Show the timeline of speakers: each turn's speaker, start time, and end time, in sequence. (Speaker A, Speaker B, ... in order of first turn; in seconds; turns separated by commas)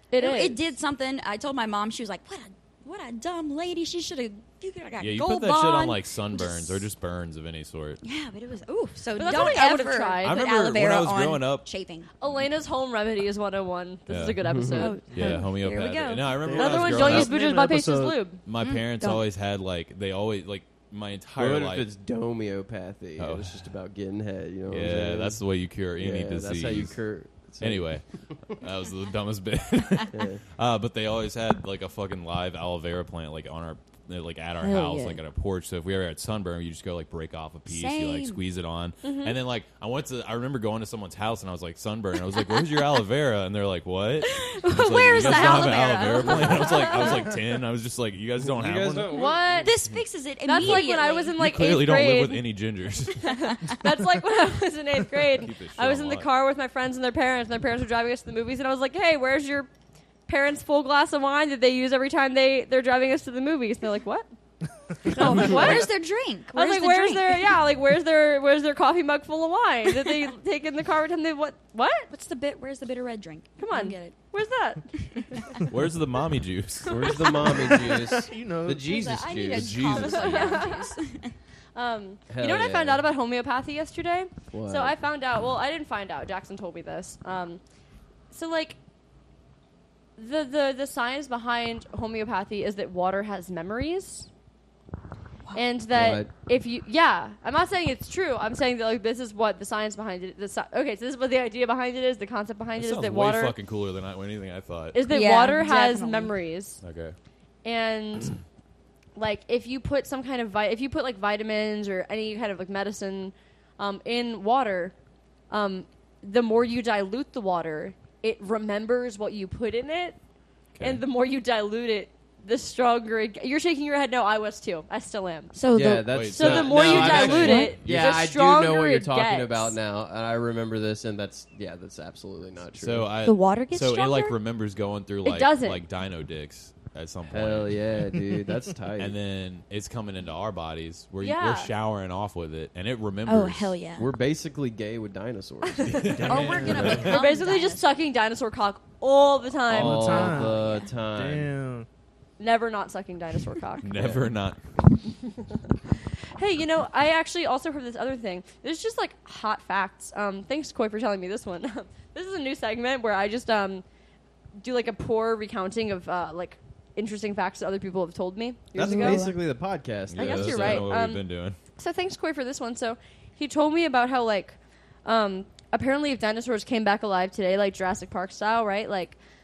Speaker A: 0.1-0.6, Speaker B: 0.2-6.9, Speaker C: 5.0-8.0, Speaker B: 8.0-12.1, Speaker A: 9.2-10.4, Speaker C: 9.3-9.6, Speaker C: 10.2-11.7, Speaker A: 12.2-15.4, Speaker C: 14.1-14.4, Speaker D: 14.4-14.9, Speaker B: 14.7-16.2, Speaker C: 15.1-17.4, Speaker E: 16.4-18.3, Speaker A: 16.5-18.4, Speaker C: 18.4-21.9, Speaker B: 18.6-19.2, Speaker D: 21.4-25.4, Speaker C: 23.2-23.7, Speaker C: 24.7-27.0, Speaker D: 26.0-27.9, Speaker C: 27.6-49.2, Speaker D: 30.1-30.4, Speaker B: 34.6-35.2, Speaker B: 37.7-38.4, Speaker A: 39.0-39.4, Speaker B: 42.4-42.7, Speaker B: 44.3-47.2, Speaker A: 45.2-45.7, Speaker A: 46.3-47.2, Speaker D: 48.5-49.8, Speaker A: 49.1-49.8, Speaker B: 49.6-51.4, Speaker A: 50.5-52.4, Speaker C: 50.6-50.9, Speaker C: 51.4-53.4, Speaker A: 53.2-59.7, Speaker C: 55.3-56.3, Speaker A: 60.3-64.3, Speaker A: 65.0-65.9, Speaker B: 65.1-67.6, Speaker A: 66.5-72.1, Speaker B: 72.1-74.2, Speaker A: 73.6-75.5, Speaker C: 75.7-77.3, Speaker D: 76.9-79.9, Speaker A: 77.0-77.7, Speaker E: 77.8-79.1, Speaker B: 78.8-81.3, Speaker C: 79.5-80.7, Speaker A: 79.9-81.0, Speaker A: 81.8-87.6, Speaker D: 82.3-83.1, Speaker D: 84.5-85.0, Speaker A: 88.3-88.8, Speaker A: 90.2-94.3, Speaker A: 95.5-103.5, Speaker D: 95.9-96.3, Speaker C: 102.8-105.0, Speaker A: 104.9-106.8, Speaker B: 105.1-106.3, Speaker C: 106.8-107.2, Speaker A: 107.6-108.4, Speaker A: 109.2-114.9, Speaker A: 115.5-120.2, Speaker C: 120.8-121.0, Speaker A: 120.8-125.5, Speaker B: 125.5-126.3, Speaker D: 125.7-133.1, Speaker C: 126.1-128.2, Speaker A: 126.3-129.8, Speaker B: 126.9-127.8, Speaker C: 132.8-138.1, Speaker B: 133.2-134.4, Speaker A: 135.2-135.8, Speaker D: 137.3-139.1, Speaker C: 139.0-143.8, Speaker A: 141.2-141.7, Speaker B: 143.3-144.1, Speaker D: 144.0-147.1, Speaker A: 145.8-150.4, Speaker C: 145.9-147.1, Speaker E: 146.1-147.1, Speaker B: 146.3-147.9, Speaker E: 149.7-150.6, Speaker D: 149.7-151.5, Speaker B: 150.3-150.9, Speaker E: 151.1-151.9, Speaker A: 152.4-153.9, Speaker C: 153.8-154.6, Speaker D: 153.9-154.2, Speaker A: 155.3-155.6, Speaker A: 156.4-163.8, Speaker A: 164.6-169.2, Speaker D: 168.8-170.9, Speaker B: 168.8-169.4, Speaker C: 170.1-171.6, Speaker A: 170.2-171.2, Speaker A: 171.8-179.2